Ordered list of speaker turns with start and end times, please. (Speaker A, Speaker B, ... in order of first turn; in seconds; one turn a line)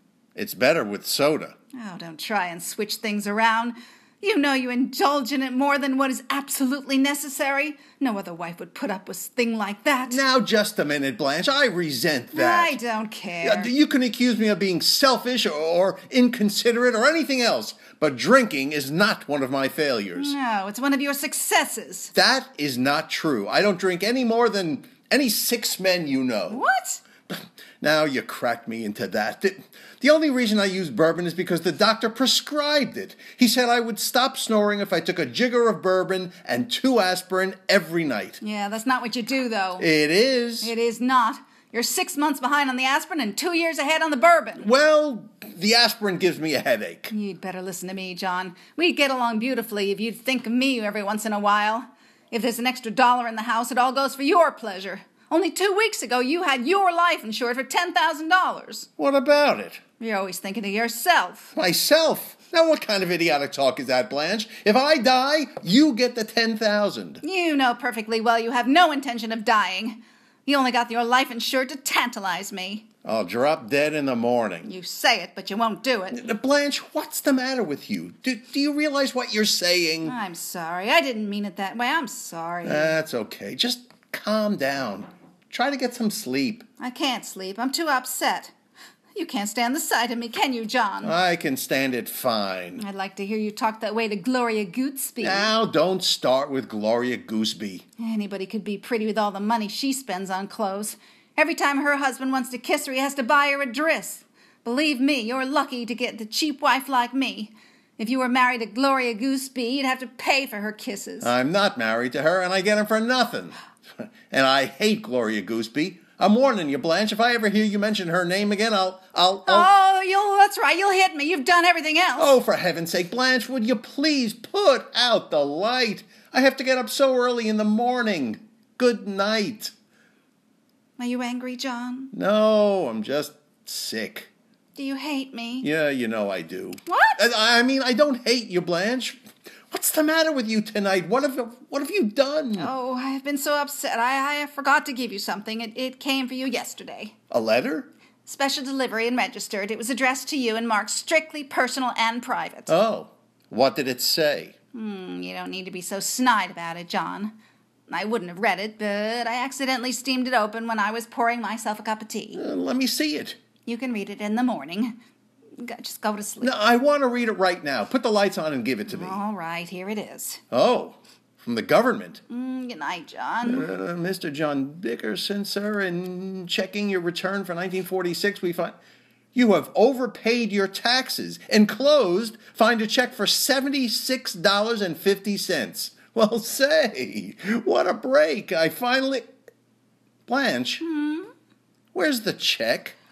Speaker A: 0.3-1.5
Speaker B: 1.7-10.2
Speaker A: 10.1-12.8
Speaker B: 12.3-13.7
Speaker A: 13.4-20.3
Speaker B: 20.1-22.1
Speaker A: 22.1-26.6
Speaker B: 26.5-27.0
Speaker A: 27.3-38.4
Speaker B: 38.4-39.9
Speaker A: 39.8-40.7
Speaker B: 40.6-44.6
Speaker A: 44.6-47.1
Speaker B: 47.1-58.9
Speaker A: 59.0-59.8
Speaker B: 60.0-61.5
Speaker A: 61.5-67.2
Speaker B: 67.2-72.8
Speaker A: 73.0-74.7
Speaker B: 74.6-76.2
Speaker A: 76.1-80.1
Speaker B: 80.0-82.9
Speaker A: 82.6-86.6
Speaker B: 86.8-88.5
Speaker B: 89.1-91.2
Speaker A: 91.0-92.8
Speaker B: 92.8-95.5
Speaker A: 95.2-97.8
Speaker B: 98.0-111.3
Speaker A: 111.2-119.7
Speaker B: 119.5-122.3
Speaker A: 122.2-129.7
Speaker B: 131.0-132.1
Speaker A: 132.1-134.3
Speaker B: 134.7-135.7
Speaker A: 135.6-142.7
Speaker B: 136.9-137.2
Speaker B: 142.6-147.1
Speaker A: 147.3-147.9
Speaker B: 148.2-152.7
Speaker A: 152.7-154.5
Speaker B: 154.7-157.3
Speaker B: 157.9-162.4
Speaker A: 162.3-163.4
Speaker B: 163.7-164.9
Speaker B: 165.6-166.5
Speaker A: 166.4-169.2
Speaker B: 168.9-170.4
Speaker A: 170.5-172.2
Speaker B: 172.3-173.7
Speaker A: 173.4-178.7
Speaker A: 179.3-189.3
Speaker A: 190.3-190.8
Speaker B: 190.8-191.3
Speaker A: 191.9-192.9